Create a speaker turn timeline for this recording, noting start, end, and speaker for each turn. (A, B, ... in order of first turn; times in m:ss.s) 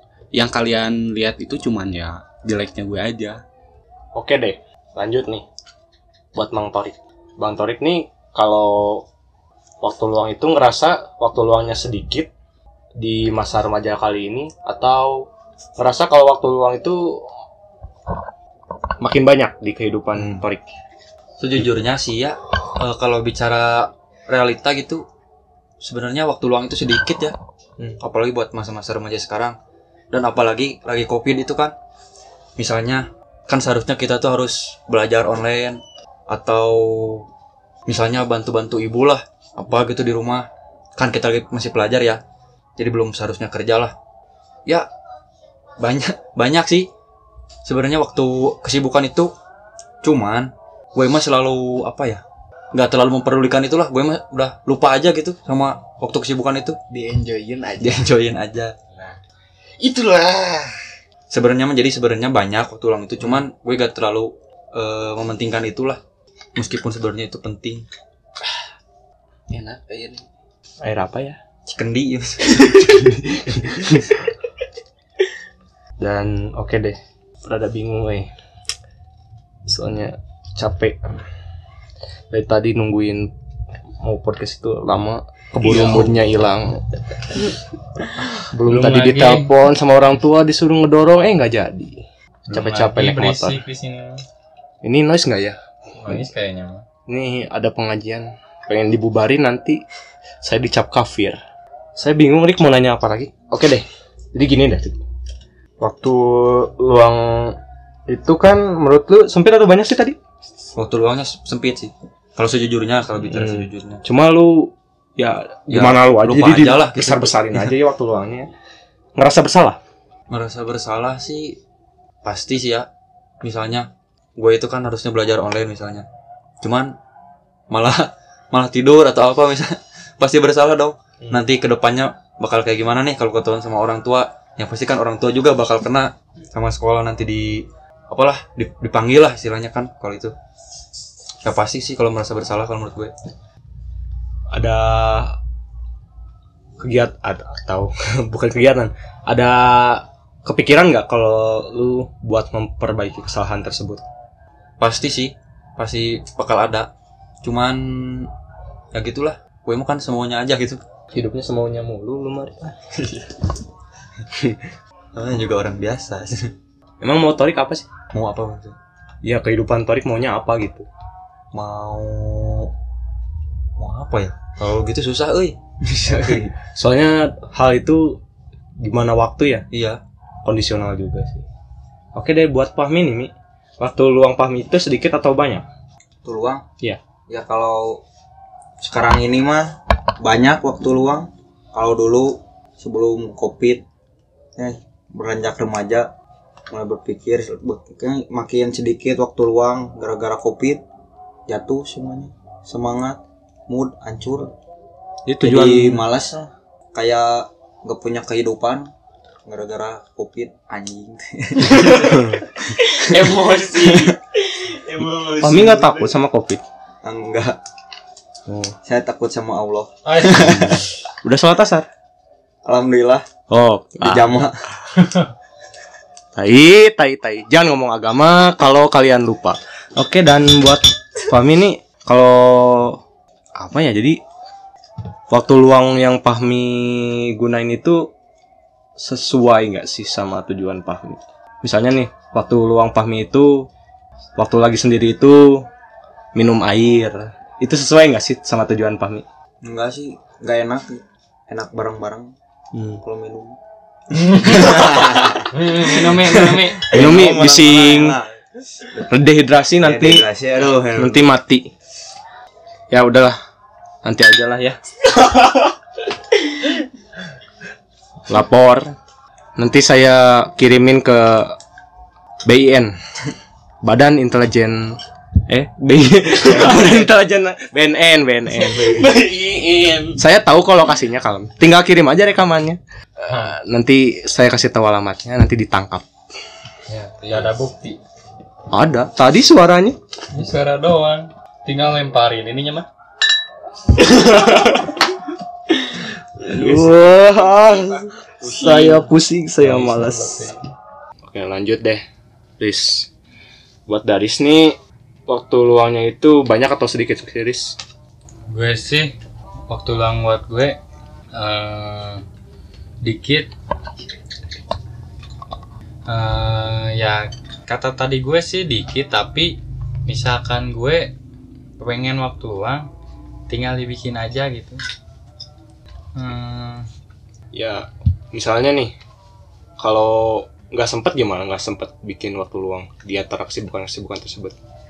0:00.3-0:03.4 A
0:04.1-0:05.4 B
0:06.3-0:09.1 B
0:09.8-0:12.3 B
0:13.0-0:17.2 B
0:19.0-0:20.6 B
0:21.4-0:25.0 C
0:25.8-0:27.4 C
0:28.0-0:29.5 C
0:30.1-0:31.8 C
0:32.6-0:37.2 C
0:37.9-0:42.2 C
0:42.8-0:43.9 C
0:45.8-0:46.9 C
0:47.6-0:49.3 C
0:50.0-0:56.8 C
0:56.9-0:58.1 A
0:57.8-0:58.8 C
0:59.8-1:00.9 A
1:01.3-1:06.0 C
1:06.6-1:07.8 C
1:09.5-1:10.2 A
1:10.8-1:11.4 B
1:11.6-1:13.1 C
1:13.1-1:14.2 B
1:16.0-1:18.3 B
1:19.7-1:21.2 B
1:22.3-1:23.3 B
1:24.0-1:27.4 B
1:25.6-1:26.1 D
1:28.4-1:33.6 B
1:28.6-1:29.5 D
1:32.5-1:34.2 D
1:34.8-1:36.2 B
1:36.0-1:36.8 D
1:37.1-1:39.8 B
1:40.4-1:41.4 B
1:42.0-1:45.0 B
1:45.8-1:50.2 B
1:50.7-1:54.0 C
1:53.3-1:58.5 B
1:55.7-1:57.7 C
1:59.2-1:59.8 B
2:00.3-2:01.6 C
2:02.2-2:02.9 C
2:03.4-2:06.1 C
2:06.6-2:06.9 C
2:07.7-2:20.3 C
2:21.4-2:23.1 C
2:24.5-2:25.4 B
2:26.8-2:34.0 B
2:34.8-2:36.9 C
2:37.4-2:38.3 C
2:38.9-2:40.8 C
2:41.1-2:43.0 B
2:44.3-2:44.6 B
2:45.1-2:46.5 C
2:47.0-2:47.9 B
2:48.1-2:48.8 C
2:49.2-2:50.9 B
2:51.5-2:52.7 C
2:53.8-2:55.6 C
2:55.9-2:56.5 E
2:56.7-2:58.2 B
2:58.8-2:59.7 B
2:59.7-3:00.0 C
3:00.4-3:01.4 B
3:02.1-3:05.6 B
3:06.2-3:06.6 E
3:07.3-3:08.0 E
3:08.8-3:13.8 E
3:14.6-3:16.1 E
3:16.7-3:20.8 E
3:21.5-3:24.5 E
3:25.2-3:26.1 B
3:25.4-3:28.9 E
3:29.4-3:32.4 E
3:32.0-3:32.4 B
3:32.8-3:36.1 A
3:35.4-3:36.6 B
3:37.0-3:37.6 E
3:38.5-3:38.8 B
3:38.8-3:40.8 E
3:40.0-3:40.8 D
3:41.2-3:41.9 B
3:42.6-3:43.2 E
3:43.5-3:44.4 B
3:44.0-3:44.5 E
3:46.4-3:53.0 B
3:53.6-3:54.2 B
3:55.3-3:58.1 B
3:59.0-4:03.7 B
4:04.4-4:05.7 B
4:06.4-4:09.2 B
4:09.6-4:12.3 E
4:12.7-4:13.0 B
4:13.0-4:13.6 E
4:14.1-4:19.1 E
4:15.5-4:17.0 D
4:16.9-4:18.2 B
4:19.1-4:20.2 B
4:19.8-4:21.2 E
4:20.9-4:21.7 B
4:22.9-4:23.4 B
4:24.0-4:24.8 B
4:28.3-4:29.0 B
4:29.6-4:31.6 B
4:32.4-4:33.0 B
4:33.8-4:39.2 B
4:36.4-4:37.0 A
4:38.6-4:40.2 A
4:40.2-4:46.1 B
4:46.9-4:48.0 D
4:48.7-4:50.0 B
4:50.3-4:52.9 D
4:54.1-4:54.9 B
4:56.4-5:00.5 B
4:56.6-4:59.0 A
4:59.6-5:00.6 D
5:01.2-5:02.0 B
5:02.6-5:03.1 B
5:03.9-5:07.8 B
5:08.5-5:09.2 D
5:09.7-5:10.8 D
5:11.3-5:12.2 D
5:13.0-5:13.5 D
5:16.1-5:19.6 D
5:20.1-5:21.1 D
5:21.8-5:22.9 D
5:23.5-5:24.8 D
5:26.2-5:26.9 D
5:27.5-5:28.9 B
5:29.8-5:34.6 B